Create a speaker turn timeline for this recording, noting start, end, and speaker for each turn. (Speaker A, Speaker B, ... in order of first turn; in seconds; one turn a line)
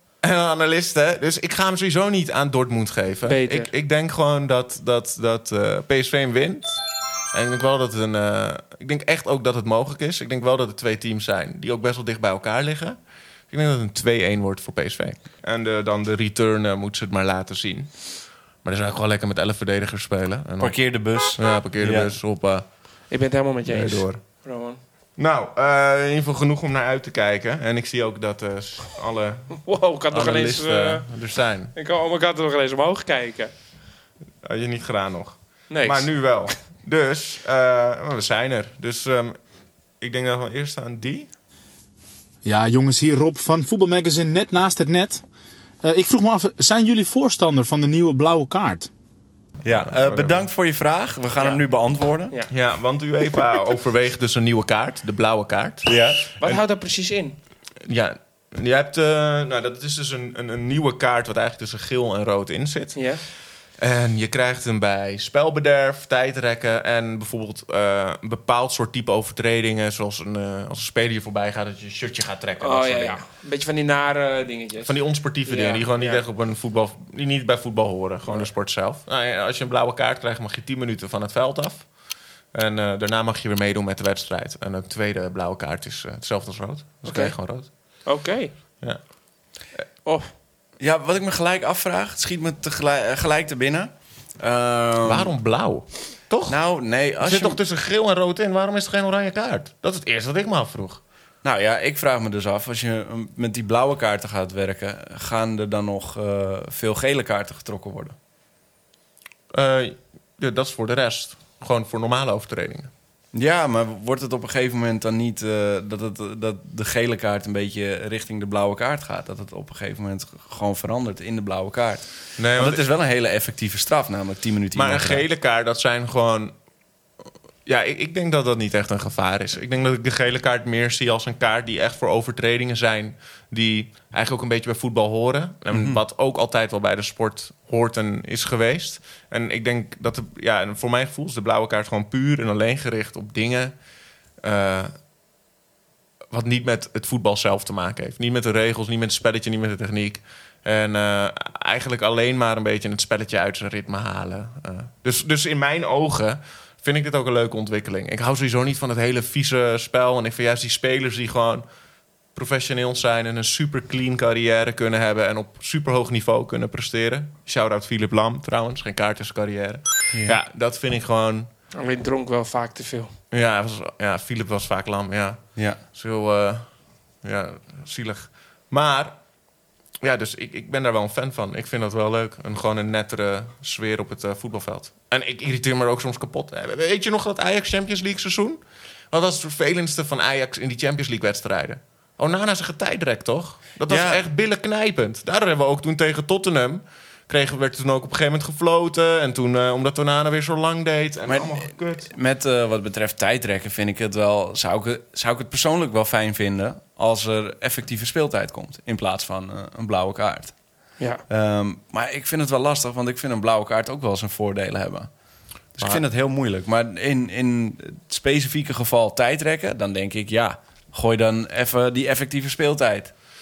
Speaker A: 0.2-13.0
Speaker B: 3.3-3.7
Speaker A: 13.5-22.7
Speaker C: 20.6-22.1
Speaker B: 23.1-24.8
Speaker A: 23.7-24.2
Speaker A: 25.2-29.6
Speaker B: 29.6-31.1
Speaker A: 30.1-31.7
Speaker B: 31.7-33.5
Speaker A: 34.4-39.4
Speaker B: 35.7-36.5
Speaker A: 40.0-41.3
Speaker D: 42.4-45.2
Speaker D: 45.8-48.9
Speaker C: 49.6-52.4
Speaker A: 49.7-50.5
Speaker B: 51.4-51.6
Speaker A: 52.5-56.6
Speaker C: 55.9-56.2
Speaker B: 56.4-57.4
Speaker A: 57.8-63.0
Speaker B: 63.0-63.2
Speaker A: 63.8-73.2
Speaker B: 72.6-76.2
Speaker A: 74.8-81.9
Speaker A: 82.5-87.7
Speaker B: 87.0-87.4
Speaker B: 88.0-88.5
Speaker B: 90.0-90.3
Speaker C: 90.8-95.3
Speaker A: 95.0-96.6
Speaker C: 96.5-97.6
Speaker A: 97.2-101.0
Speaker C: 101.4-108.2
Speaker A: 109.5-112.9
Speaker C: 113.3-125.2
Speaker A: 122.4-122.8
Speaker A: 124.8-126.5
Speaker A: 127.7-143.8
Speaker C: 135.7-136.0
Speaker A: 144.4-144.9
Speaker A: 146.3-161.7
Speaker A: 162.3-171.5
Speaker C: 170.1-170.4
Speaker B: 171.7-173.1
Speaker A: 173.3-176.7
Speaker A: 177.2-179.2
Speaker A: 180.0-202.1
Speaker C: 193.9-194.2
Speaker C: 201.3-210.6
Speaker C: 211.3-215.1
Speaker C: 215.7-223.1
Speaker A: 215.8-216.0